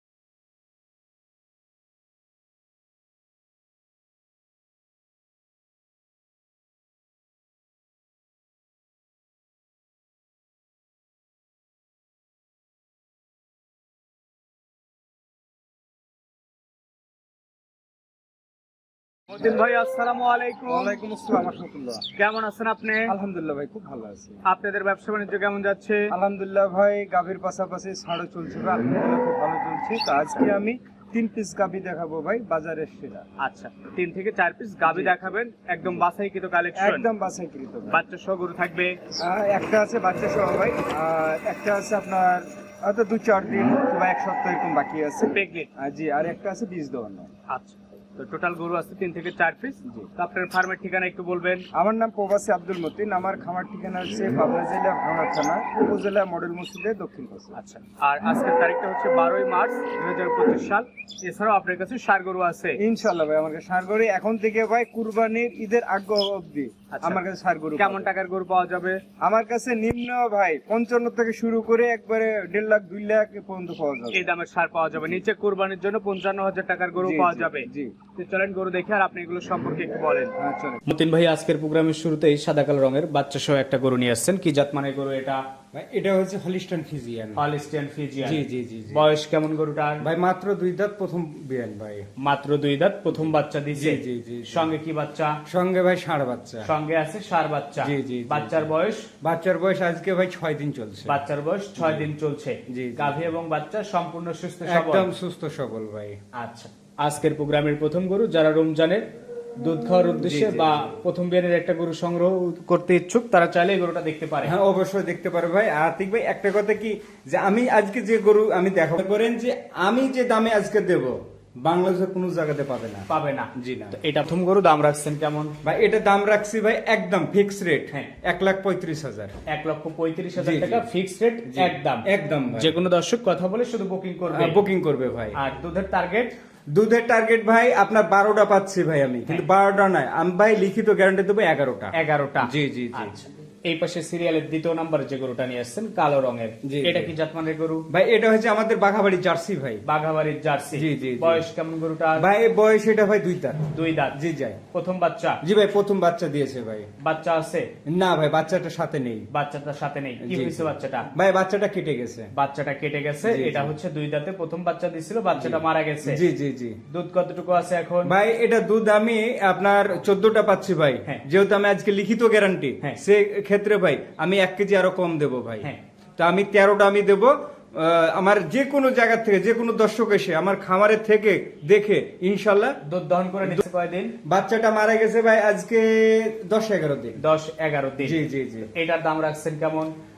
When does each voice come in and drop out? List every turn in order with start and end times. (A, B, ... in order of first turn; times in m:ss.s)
0:19.3-0:21.0 A
0:20.7-0:22.1 B
0:22.1-0:23.2 A
0:23.1-0:24.4 B
0:24.4-0:26.2 A
0:26.1-0:33.3 B
0:33.4-0:37.1 A
0:34.8-0:35.2 B
0:36.8-0:38.0 B
0:37.9-0:39.0 A
0:39.2-0:47.3 B
0:45.3-0:45.7 A
0:47.5-0:51.7 A
0:51.7-0:57.6 B
0:57.6-1:02.8 A
1:02.8-1:08.1 B
1:06.9-1:07.2 A
1:07.8-1:09.0 A
1:09.2-1:14.3 B
1:14.1-1:20.3 A
1:17.0-1:18.0 B
1:20.4-1:20.8 B
1:20.9-1:25.4 A
1:25.7-1:27.4 B
1:27.4-1:30.0 A
1:28.2-1:29.0 B
1:30.0-1:32.1 B
1:32.2-1:35.4 A
1:33.7-1:34.7 B
1:35.5-1:36.7 B
1:36.6-1:39.1 A
1:37.8-1:38.7 B
1:39.2-1:41.2 B
1:41.1-1:45.1 A
1:41.8-1:42.1 B
1:42.7-1:43.3 B
1:44.6-1:46.2 B
1:46.4-1:54.5 A
1:50.2-1:50.9 B
1:54.4-2:04.0 B
2:03.1-2:05.6 A
2:05.6-2:09.4 B
2:09.5-2:14.6 A
2:10.4-2:10.8 B
2:11.4-2:12.7 B
2:14.3-2:15.4 B
2:15.3-2:16.3 A
2:16.7-2:23.1 B
2:21.9-2:27.9 A
2:26.6-2:27.1 B
2:27.9-2:29.8 B
2:29.8-2:32.3 A
2:30.8-2:31.4 B
2:32.2-2:34.6 B
2:33.7-2:34.2 A
2:34.7-2:35.4 A
2:35.4-2:36.9 B
2:37.0-2:37.7 A
2:37.9-2:39.3 B
2:39.3-2:41.1 A
2:40.2-2:42.3 B
2:42.3-2:46.2 A
2:43.2-2:43.7 B
2:45.4-2:46.8 B
2:46.9-2:48.1 A
2:48.0-3:02.8 B
3:02.8-3:04.2 A
3:04.2-3:07.2 B
3:07.2-3:08.2 A
3:08.0-3:08.7 B
3:08.7-3:09.9 A